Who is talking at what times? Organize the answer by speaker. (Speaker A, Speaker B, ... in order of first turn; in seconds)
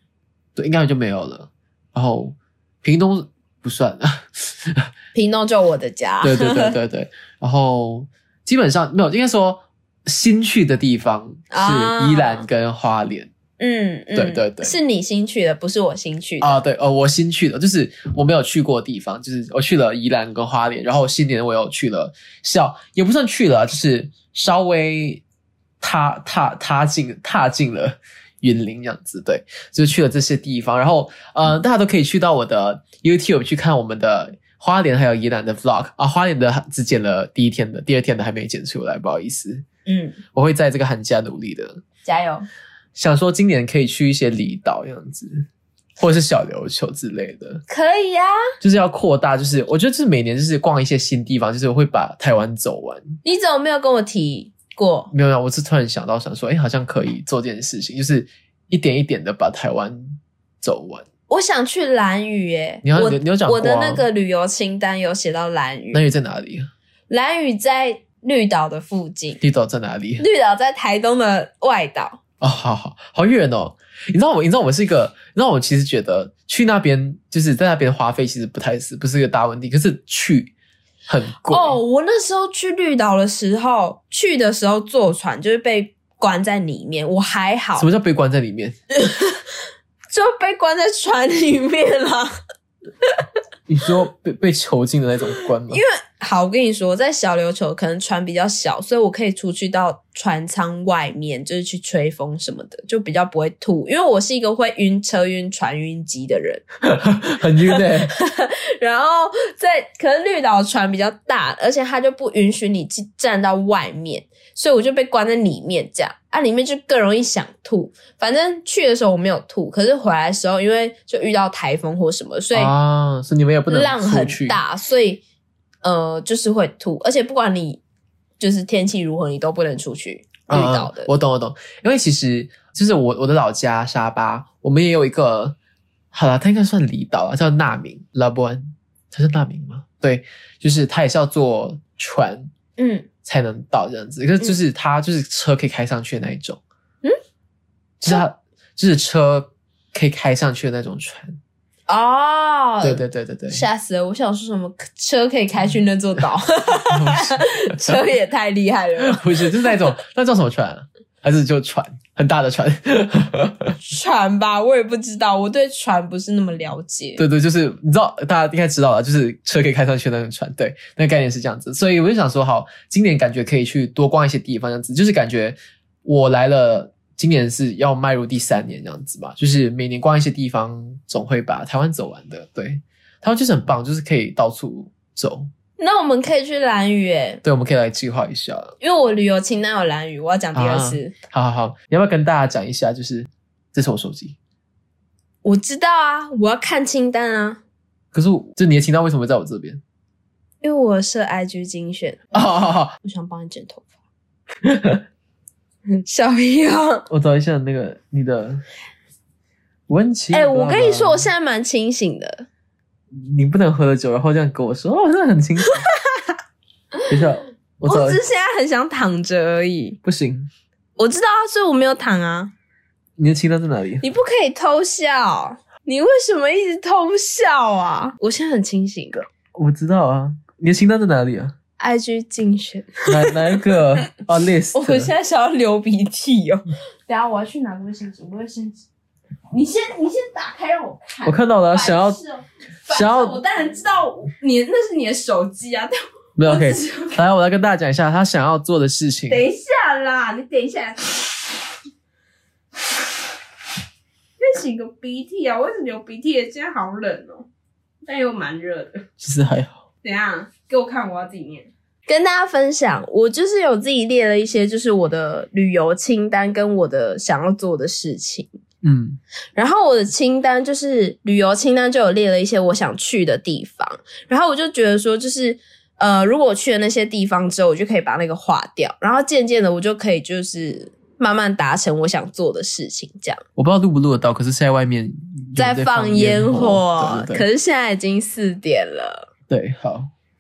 Speaker A: 0.6-4.9, 6.2-13.3, 14.1-14.8, 16.4-25.2, 25.8-39.6, 40.3-41.8, 43.0-45.5, 46.0-47.6, 48.6-53.2, 55.1-61.1, 62.8-64.1, 65.9-66.7, 69.4-70.2, 72.4-80.5, 81.1-81.8, 87.8-88.8, 93.7-95.8, 106.8-108.1, 122.5-124.6, 130.5-135.6, 136.1-142.5, 143.2-146.6, 148.0-151.4, 152.8-153.6, 156.9-158.0, 159.0-163.8, 167.2-185.5, 187.4-188.7, 190.6-194.4, 198.1-199.8, 202.3-202.9, 204.6-205.0, 207.1-208.6, 209.9-211.3, 213.1-215.8, 217.1-218.2, 220.0-220.5, 223.2-224.0, 229.5-231.6, 233.1-235.1, 241.2-242.2, 242.9-243.4, 246.4-249.4, 259.2-259.8, 268.8-269.2, 283.6-287.5, 289.5-290.1
Speaker B: 5.1-6.8, 11.5-12.5, 13.6-16.6, 39.9-40.2, 42.0-42.5, 47.7-48.5, 53.2-55.1, 61.3-66.0, 67.1-69.4, 70.2-72.2, 81.5-87.9, 89.0-89.4, 90.1-92.3, 95.7-106.6, 107.7-122.7, 123.7-125.2, 125.8-127.8, 128.4-131.1, 142.8-143.1, 151.9-159.8, 163.8-167.2, 185.8-187.4, 188.8-191.1, 195.4-197.6, 200.6-202.4, 203.0-203.9, 205.9-207.0, 210.3-212.5, 217.8-220.0, 221.0-222.5, 224.0-229.3, 231.8-233.6, 234.7-238.8, 239.5-247.2, 249.3-251.6, 254.4-257.5, 258.1-259.1, 260.0-268.5, 269.6-283.4, 285.6-289.3